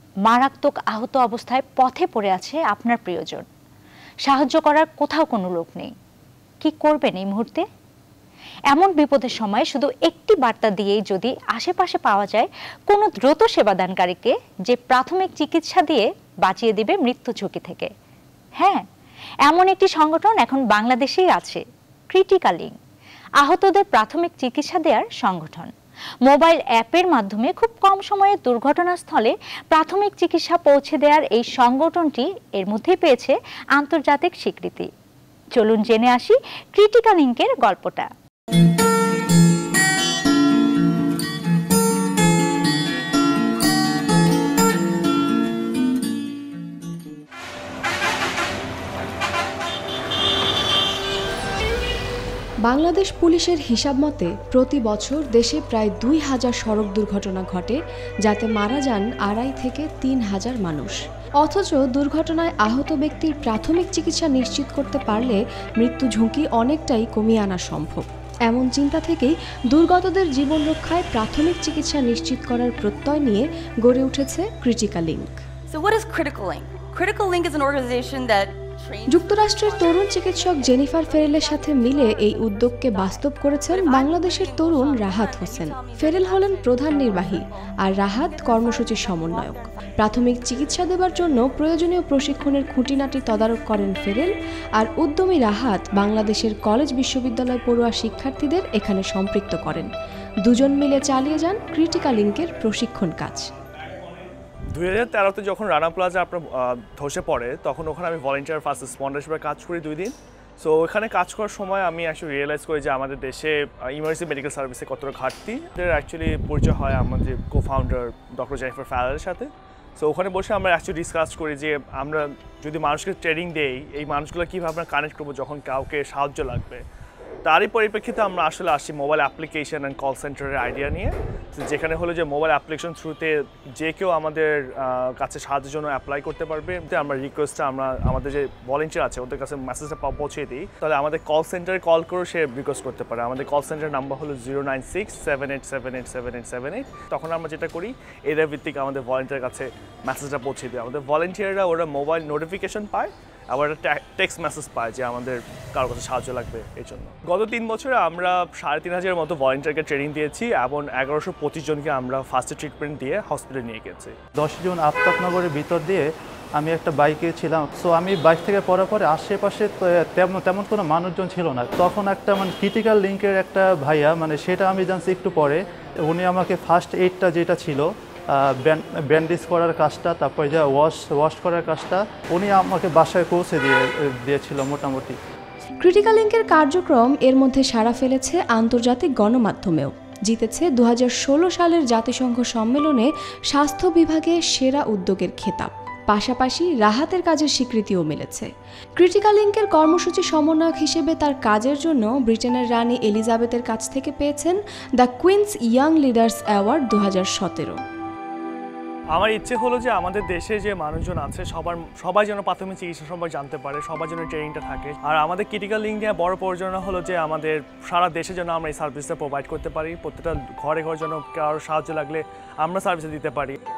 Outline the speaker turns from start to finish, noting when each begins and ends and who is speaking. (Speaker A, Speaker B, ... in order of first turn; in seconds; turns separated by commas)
Speaker A: 0.3-3.5, Speaker A: 4.2-5.9, Speaker A: 6.6-7.6, Speaker A: 8.7-17.9, Speaker A: 19.5-22.7, Speaker A: 23.4-25.7, Speaker A: 26.2-34.9, Speaker A: 35.5-38.1, Speaker B: 52.6-75.4, Speaker C: 75.7-87.5, Speaker B: 79.1-99.9, Speaker C: 88.1-89.9, Speaker B: 100.4-103.5, Speaker D: 103.6-126.8, Speaker D: 127.5-164.2, Speaker E: 164.4-166.1, Speaker E: 166.6-185.2, Speaker B: 185.8-207.8, Speaker D: 209.1-223.6